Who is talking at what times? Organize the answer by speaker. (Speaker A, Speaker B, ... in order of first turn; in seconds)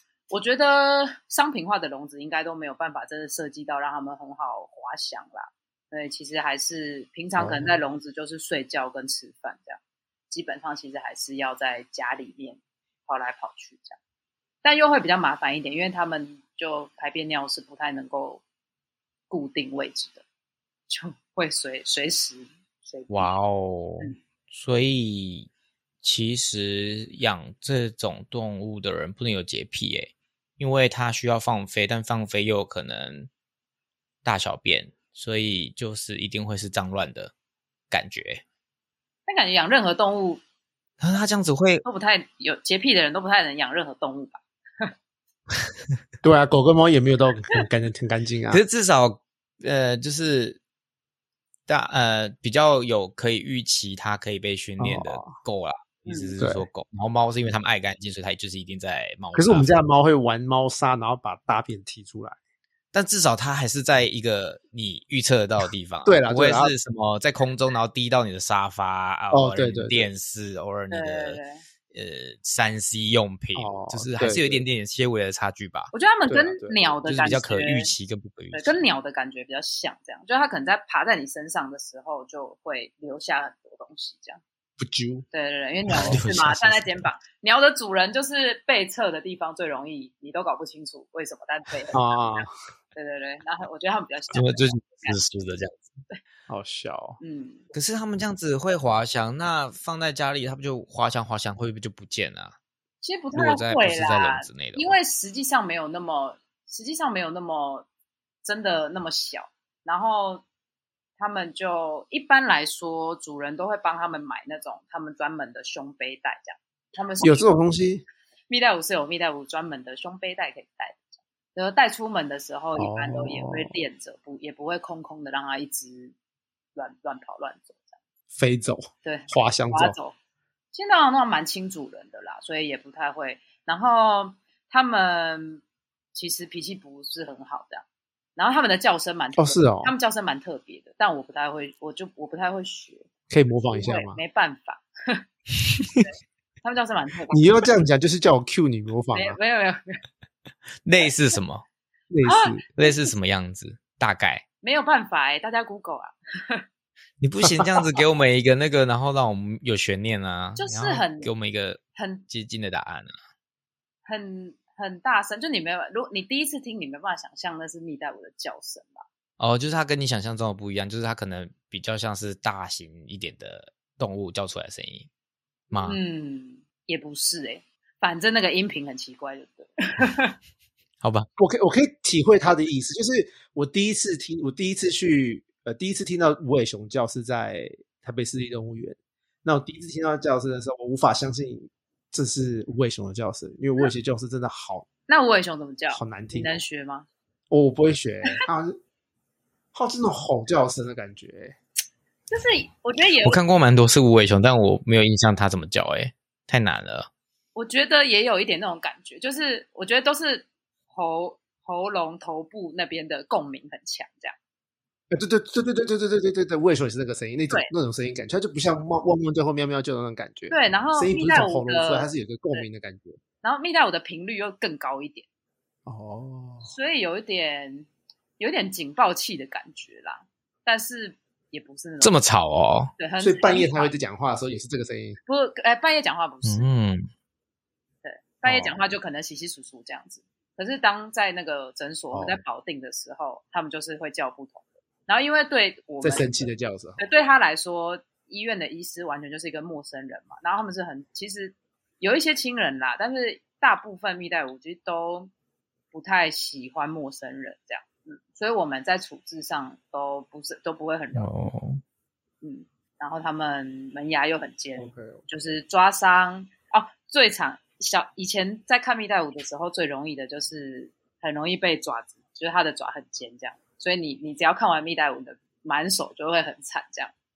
Speaker A: 0.3-9.8, 10.3-14.0, 14.6-18.4, 19.3-20.2, 20.9-23.3, 39.3-40.4, 41.9-44.9, 56.1-56.4, 70.9-71.6, 75.9-77.9, 78.5-84.4, 85.3-95.4, 97.2-97.7, 103.0-107.9, 108.4-110.4, 111.2-117.5, 118.5-126.2, 126.8-128.0, 129.0-130.1, 130.7-135.6, 136.1-137.8, 138.4-143.1, 143.7-145.2, 146.6-147.7, 149.1-150.0, 152.2-153.1, 154.6-156.7, 160.6-161.3, 162.0-162.3, 164.1-169.0, 175.8-180.4, 195.1-197.1, 202.3-203.4, 207.6-214.4, 220.5-222.7, 223.4-225.3, 226.6-227.9, 228.4-232.2, 233.0-233.9, 235.3-236.7, 238.0-255.3, 255.9-261.3, 262.4-277.1
Speaker B: 7.4-7.8, 46.2-48.6, 54.8-55.4, 56.4-56.7, 59.3-62.4, 66.0-66.7, 69.3-70.1, 73.5-74.6, 76.3-76.8, 84.8-85.3, 85.9-86.2, 91.9-92.5, 96.5-97.2, 117.2-118.0, 122.8-123.8, 128.3-129.9, 139.4-139.9, 143.3-144.2, 147.3-149.4, 152.1-152.6, 181.4-194.9, 195.9-196.6, 197.5-198.8, 199.7-201.6, 215.1-223.2, 225.9-226.7, 233.2-235.2, 238.4-238.8, 242.1-242.4, 246.0-247.0, 264.8-265.2
Speaker C: 23.1-25.5, 26.0-33.3, 34.2-37.3, 37.9-38.4, 41.0-41.8, 48.5-50.6, 51.7-59.8, 62.9-71.4, 71.9-75.9, 77.0-78.8, 85.9-87.0, 94.3-95.8, 97.7-102.6, 103.3-105.0, 150.8-151.7, 152.8-154.4, 157.2-163.1, 169.4-175.1, 175.7-176.0, 181.0-181.3, 203.2-207.1, 232.0-232.9, 236.4-237.1, 261.2-261.8